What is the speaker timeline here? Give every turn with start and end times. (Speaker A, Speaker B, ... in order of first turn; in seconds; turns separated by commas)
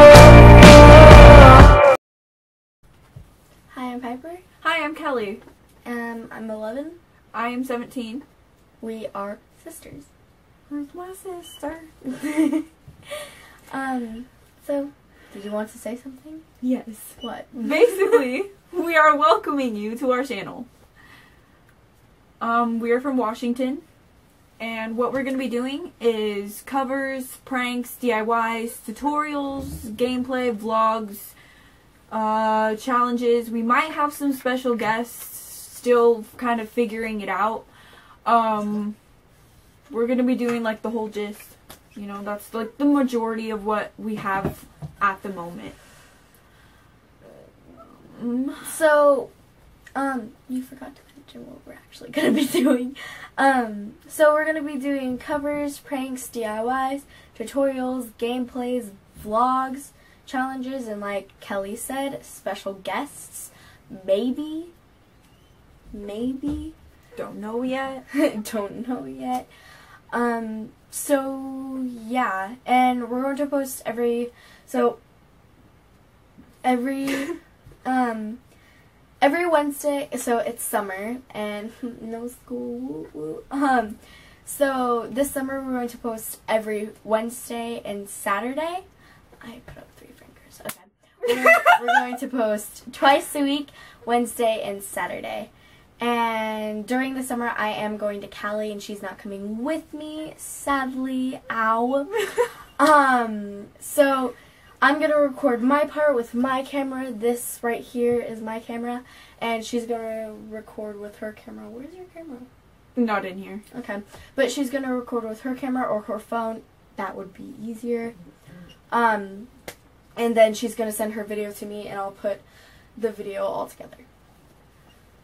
Speaker A: 3.7-4.4, Speaker B: 4.6-5.4, Speaker A: 5.8-7.0, Speaker B: 7.3-8.2, Speaker A: 8.8-10.1, Speaker B: 10.7-11.9, Speaker A: 12.1-12.7, Speaker A: 13.7-16.4, Speaker B: 16.6-20.7, Speaker A: 17.2-18.2, Speaker B: 22.4-23.8, Speaker B: 24.6-31.3, Speaker B: 32.1-37.7, Speaker B: 38.2-39.0, Speaker B: 39.9-45.8, Speaker B: 47.9-48.7, Speaker A: 48.6-49.3, Speaker A: 50.0-64.7, Speaker A: 65.9-66.8, Speaker B: 67.2-68.0, Speaker A: 68.1-69.5, Speaker A: 70.1-75.0, Speaker A: 76.6-78.4, Speaker A: 79.2-88.8, Speaker A: 89.4-102.2, Speaker A: 102.8-112.5, Speaker B: 113.0-113.6, Speaker A: 113.7-118.2, Speaker A: 118.9-119.5, Speaker A: 120.2-122.4, Speaker A: 123.0-124.1